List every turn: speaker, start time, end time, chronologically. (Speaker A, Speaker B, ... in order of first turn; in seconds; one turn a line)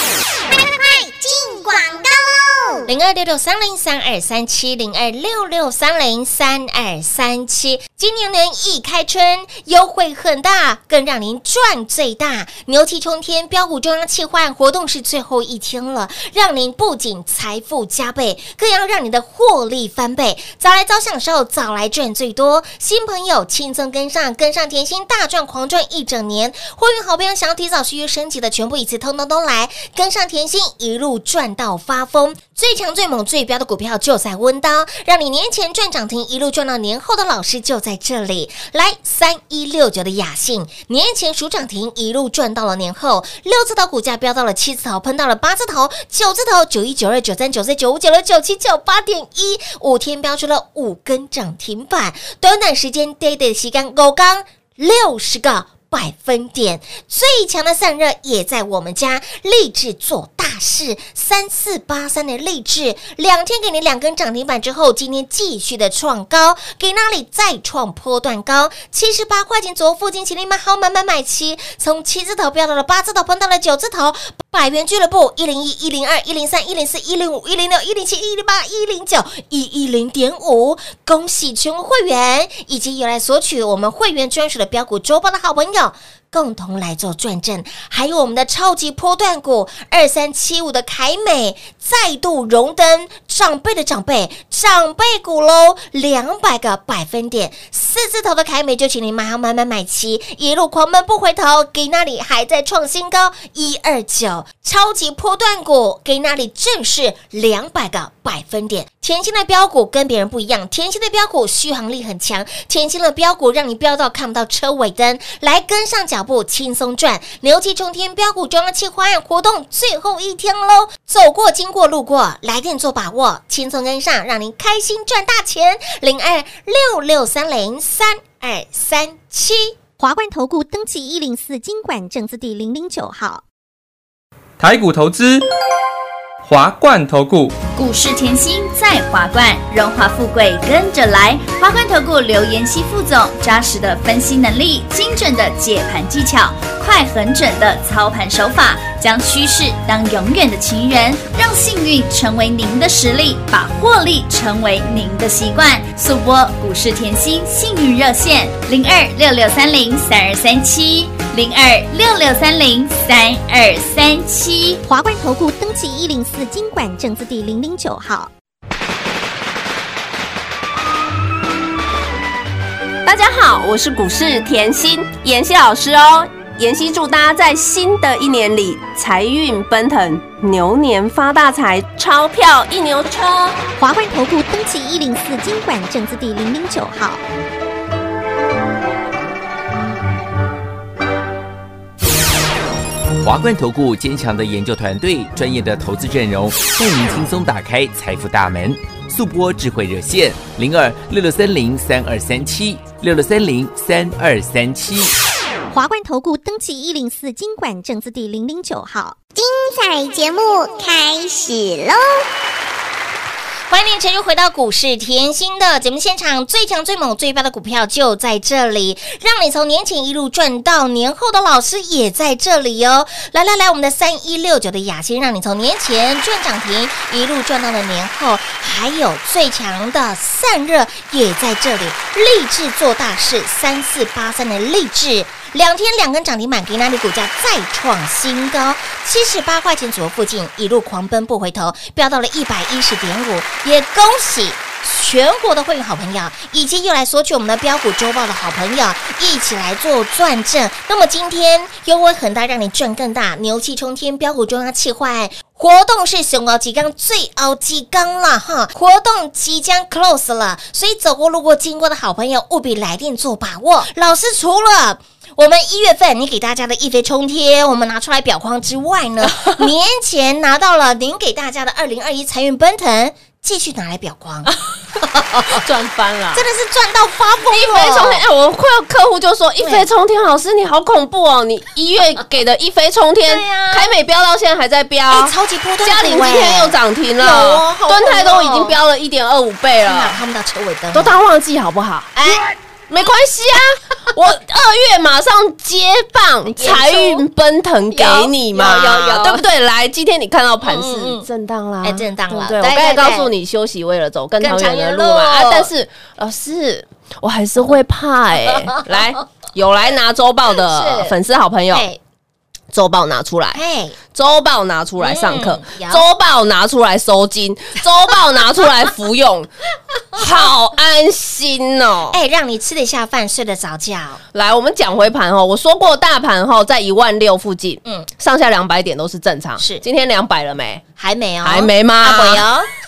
Speaker A: 0.4-2.9
Speaker B: 2.9-129.8
Speaker C: 130.0-133.4
Speaker D: 134.6-135.4
Speaker D: 136.4-137.5
Speaker E: 137.8-164.8
Speaker C: 164.8-168.3
Speaker F: 173.0-183.7
Speaker C: 183.8-187.2
Speaker G: 193.2-205.1
Speaker C: 205.7-209.2
Speaker A: 209.3-212.2
Speaker B: 213.7-275.6
Speaker F: 269.2-269.7
Speaker F: 275.5-276.4
Speaker B: 276.3-278.2
Speaker F: 277.5-290.2
Speaker B: 279.6-279.9
Speaker B: 283.2-283.9
Speaker B: 285.1-288.8
Speaker B: 289.8-291.2
Speaker F: 290.9-292.2
Speaker B: 292.1-292.6
Speaker F: 292.9-311.9
Speaker B: 296.6-297.2
Speaker B: 297.9-299.4
Speaker B: 300.6-301.3
Speaker B: 301.8-303.3
Speaker B: 304.4-305.7
Speaker B: 308.5-308.9
Speaker B: 310.6-311.1
Speaker B: 311.7-312.0
Speaker F: 312.7-319.5
Speaker B: 313.5-314.0
Speaker B: 315.0-316.1
Speaker F: 320.1-322.2
Speaker B: 320.1-320.5
Speaker B: 322.1-324.2
Speaker F: 324.3-330.8
Speaker B: 329.6-329.8
Speaker B: 331.0-332.7
Speaker F: 331.4-332.5